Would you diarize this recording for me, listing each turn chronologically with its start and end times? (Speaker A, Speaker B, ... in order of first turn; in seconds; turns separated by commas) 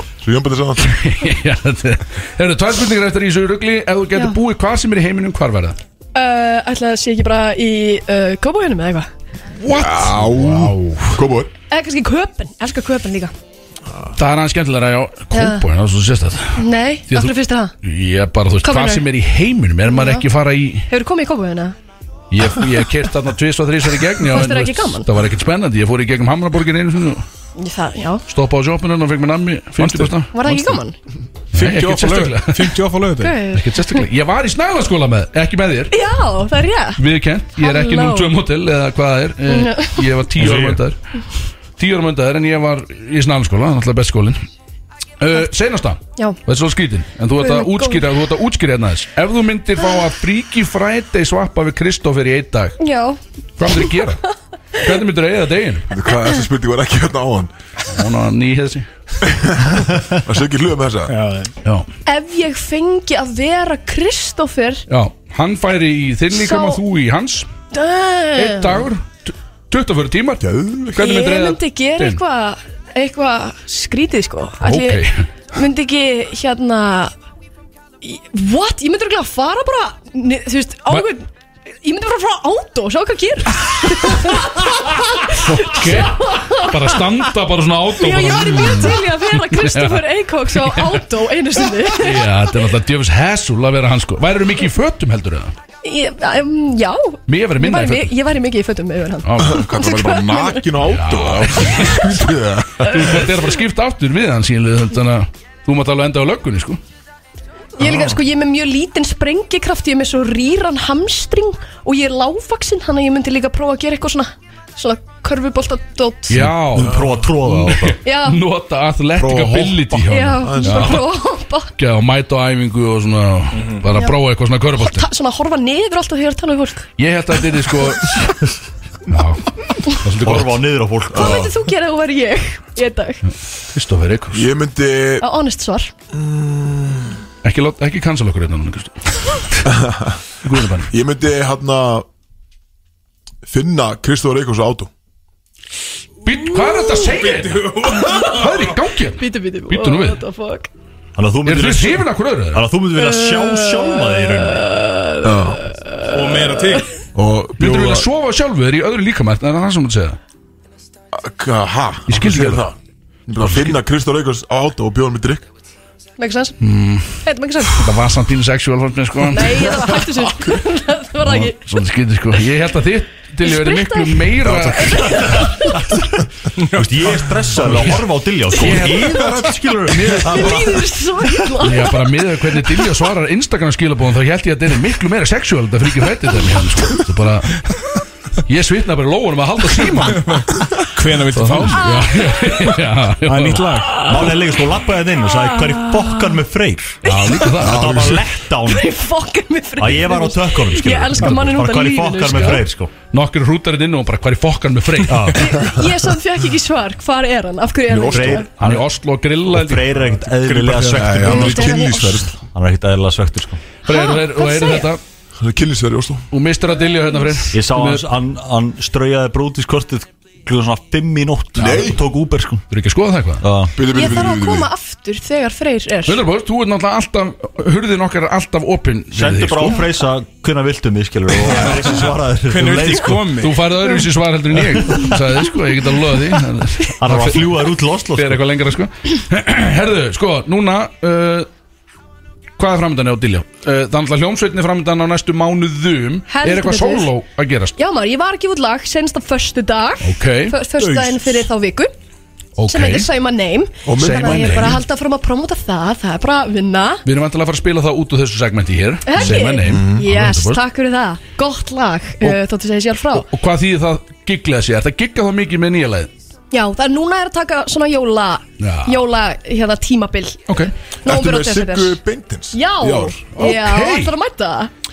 Speaker A: 0.2-1.0, Speaker B: 0.8-5.8, Speaker C: 6.1-9.1, Speaker B: 9.6-11.2, Speaker A: 9.7-11.5, Speaker C: 11.7-13.3, Speaker B: 14.2-20.9, Speaker C: 15.3-15.6, Speaker C: 16.6-17.7, Speaker C: 18.6-19.1, Speaker C: 19.9-20.2, Speaker C: 20.9-21.7, Speaker B: 22.3-27.2, Speaker C: 24.2-25.1, Speaker C: 27.6-28.2, Speaker B: 28.3-30.8, Speaker D: 29.8-30.1, Speaker C: 30.3-30.9, Speaker B: 31.5-32.8, Speaker D: 31.5-33.4, Speaker C: 33.2-34.0, Speaker B: 33.5-36.0, Speaker C: 35.9-37.0, Speaker B: 37.0-41.0, Speaker C: 37.6-38.4, Speaker C: 39.5-40.1, Speaker B: 41.8-44.4, Speaker B: 45.2-52.8, Speaker C: 47.4-48.1, Speaker C: 52.8-54.0, Speaker B: 53.6-54.2, Speaker B: 54.8-55.9, Speaker A: 55.9-57.5, Speaker B: 57.9-58.9, Speaker A: 59.2-61.1, Speaker D: 61.1-61.5, Speaker C: 62.0-64.8, Speaker B: 64.9-67.5, Speaker C: 66.3-66.8, Speaker C: 67.7-68.9, Speaker B: 68.3-72.2, Speaker A: 70.4-71.0, Speaker C: 71.0-77.1, Speaker B: 74.6-75.2, Speaker C: 78.0-81.3, Speaker C: 81.8-87.3, Speaker B: 85.4-91.0, Speaker C: 87.9-92.6, Speaker B: 91.7-95.5, Speaker C: 95.8-100.7, Speaker B: 97.3-98.1, Speaker B: 99.2-99.7, Speaker A: 99.4-103.2, Speaker B: 100.8-102.2, Speaker B: 102.8-106.8, Speaker C: 107.8-116.5, Speaker B: 116.3-121.1, Speaker E: 116.7-118.0, Speaker C: 118.0-118.4, Speaker A: 119.2-121.0, Speaker C: 120.1-121.7, Speaker B: 121.8-125.0, Speaker C: 124.8-126.9, Speaker B: 127.0-128.2, Speaker B: 129.1-130.6, Speaker E: 130.2-131.5, Speaker C: 131.1-133.2, Speaker A: 131.2-131.4, Speaker B: 133.7-134.5, Speaker A: 134.3-135.2, Speaker C: 135.2-135.9, Speaker A: 136.1-137.2, Speaker B: 137.4-138.9, Speaker A: 139.6-140.2, Speaker B: 140.4-140.9, Speaker A: 140.9-142.1, Speaker A: 143.4-144.9, Speaker B: 146.2-150.2, Speaker C: 146.5-147.0, Speaker D: 147.1-148.4, Speaker C: 148.1-148.4, Speaker C: 149.2-150.7, Speaker E: 151.2-154.7, Speaker B: 151.4-152.7, Speaker C: 152.9-156.8, Speaker A: 155.2-155.6, Speaker D: 156.1-156.9, Speaker A: 157.1-158.1, Speaker B: 157.6-160.2, Speaker A: 161.1-162.7, Speaker B: 162.1-162.7, Speaker A: 163.3-165.4, Speaker B: 163.4-163.8, Speaker C: 166.2-166.6, Speaker B: 166.6-167.2, Speaker C: 167.2-167.9, Speaker B: 167.8-170.2, Speaker C: 169.3-171.8, Speaker B: 171.2-175.5, Speaker C: 173.4-175.9, Speaker A: 174.4-175.3, Speaker D: 176.6-177.4, Speaker E: 176.7-180.8, Speaker B: 177.7-177.9, Speaker C: 178.5-179.5, Speaker B: 178.6-179.3, Speaker A: 179.1-179.5, Speaker B: 179.9-180.6, Speaker C: 180.1-182.2, Speaker B: 181.6-187.7, Speaker B: 188.4-190.4, Speaker D: 190.1-192.0, Speaker B: 191.3-194.1, Speaker C: 191.7-192.8, Speaker D: 193.2-194.1, Speaker E: 194.0-197.0, Speaker C: 195.2-196.4, Speaker C: 197.0-197.7, Speaker B: 197.0-198.1, Speaker A: 197.6-198.2, Speaker E: 197.6-198.9, Speaker C: 198.5-202.7, Speaker E: 199.8-202.9, Speaker B: 202.3-205.4, Speaker E: 205.1-205.5, Speaker C: 205.3-208.5, Speaker A: 207.9-208.4, Speaker E: 208.1-208.9, Speaker B: 208.6-209.9, Speaker E: 209.5-211.7, Speaker D: 210.3-211.8, Speaker A: 210.9-212.3, Speaker C: 211.2-212.3, Speaker E: 212.5-213.6, Speaker C: 213.8-214.9, Speaker B: 213.8-215.0, Speaker A: 215.4-216.2, Speaker B: 216.3-218.0, Speaker E: 217.5-222.6, Speaker A: 221.5-222.0, Speaker B: 222.7-223.4, Speaker E: 223.4-223.8, Speaker A: 223.8-224.7, Speaker C: 223.8-226.2, Speaker B: 226.1-229.8, Speaker E: 229.1-233.3, Speaker D: 231.4-233.7, Speaker B: 231.5-232.0, Speaker B: 233.4-237.6, Speaker E: 237.0-238.4, Speaker B: 238.1-241.5, Speaker B: 242.6-247.7, Speaker C: 246.3-247.1, Speaker C: 247.8-251.9, Speaker B: 250.0-250.6, Speaker B: 252.6-253.1, Speaker C: 252.7-257.0, Speaker A: 253.8-254.7, Speaker B: 254.0-254.8, Speaker B: 257.0-260.6, Speaker C: 259.1-263.3, Speaker A: 259.2-260.1, Speaker B: 263.1-266.1, Speaker C: 266.5-270.4, Speaker B: 268.6-269.0, Speaker C: 271.0-272.0, Speaker A: 271.0-273.2, Speaker C: 272.5-274.7, Speaker B: 273.3-274.1